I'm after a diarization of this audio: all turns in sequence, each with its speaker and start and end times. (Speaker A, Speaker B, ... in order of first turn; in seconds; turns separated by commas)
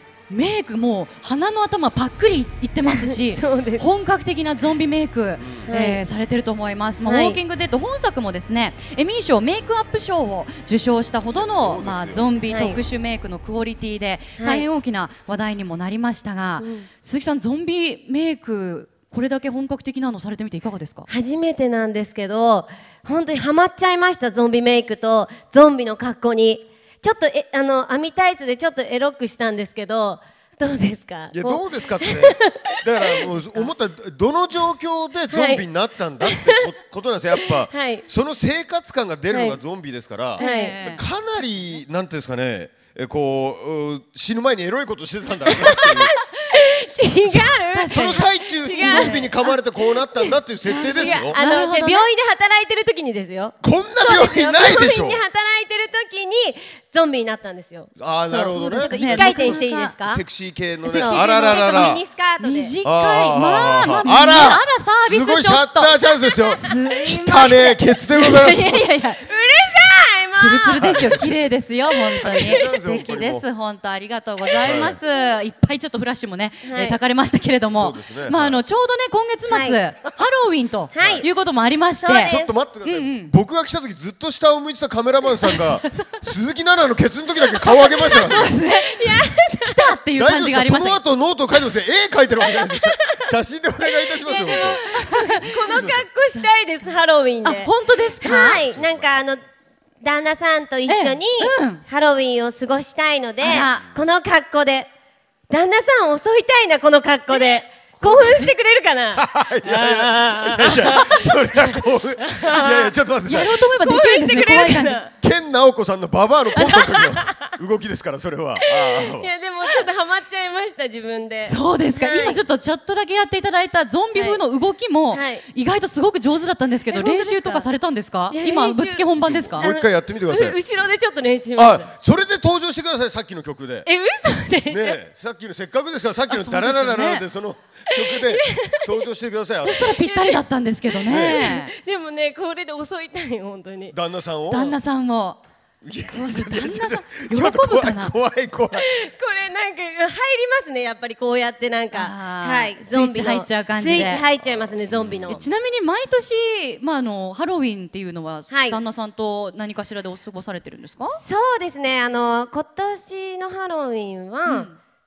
Speaker A: 0.3-21.1, Speaker B: 2.9-3.9, Speaker C: 5.4-5.7, Speaker B: 5.7-6.0, Speaker B: 7.0-7.4, Speaker C: 11.3-12.4, Speaker B: 12.5-12.8, Speaker B: 14.4-14.7, Speaker B: 16.6-16.9, Speaker B: 21.1-33.6, Speaker C: 31.3-46.2, Speaker B: 35.3-35.6, Speaker B: 36.2-36.6, Speaker B: 37.5-38.0, Speaker B: 39.3-39.6, Speaker A: 40.4-41.0, Speaker B: 40.4-40.8, Speaker B: 45.5-60.2, Speaker C: 47.2-51.4, Speaker A: 47.7-49.3, Speaker A: 50.6-52.1, Speaker C: 53.6-55.2, Speaker C: 58.0-62.0, Speaker A: 58.3-59.9, Speaker B: 60.9-62.7, Speaker A: 60.9-66.0, Speaker C: 62.8-68.8, Speaker B: 66.2-66.8, Speaker A: 66.5-69.2, Speaker B: 69.2-71.2, Speaker A: 70.3-83.3, Speaker C: 70.8-71.5, Speaker B: 72.2-72.8, Speaker C: 72.2-73.5, Speaker C: 74.6-75.0, Speaker B: 76.6-77.0, Speaker C: 77.7-78.6, Speaker B: 79.5-79.8, Speaker B: 80.9-81.3, Speaker C: 81.0-81.3, Speaker B: 82.0-82.5, Speaker C: 82.2-88.5, Speaker A: 85.4-86.3, Speaker B: 87.8-89.9, Speaker A: 88.0-91.0, Speaker C: 90.2-94.8, Speaker B: 92.6-93.3, Speaker B: 94.0-99.4, Speaker A: 94.9-95.6, Speaker C: 95.6-96.0, Speaker A: 97.4-98.6, Speaker C: 98.4-99.2, Speaker B: 100.0-104.9, Speaker A: 100.9-101.8, Speaker A: 103.4-103.9, Speaker B: 105.5-112.9, Speaker C: 107.9-108.5, Speaker C: 109.2-113.5, Speaker A: 113.2-115.0, Speaker B: 113.7-115.1, Speaker C: 115.2-119.3, Speaker B: 116.7-117.4, Speaker B: 118.7-122.4, Speaker A: 121.4-129.7, Speaker B: 124.2-124.4, Speaker B: 125.1-125.4, Speaker B: 126.9-127.7, Speaker B: 128.3-131.9, Speaker C: 129.2-130.6, Speaker C: 131.6-133.9, Speaker B: 133.9-135.0, Speaker C: 134.7-140.0, Speaker A: 136.3-137.2, Speaker B: 138.0-139.0, Speaker A: 139.6-141.7, Speaker B: 140.0-143.9, Speaker C: 141.1-141.6, Speaker C: 143.9-144.8, Speaker A: 144.5-145.4, Speaker C: 145.8-148.9, Speaker A: 146.1-148.2, Speaker B: 148.8-155.4, Speaker A: 151.9-154.3, Speaker C: 154.0-155.4, Speaker A: 155.3-161.2, Speaker B: 158.5-158.8, Speaker B: 161.2-164.7, Speaker A: 164.5-164.8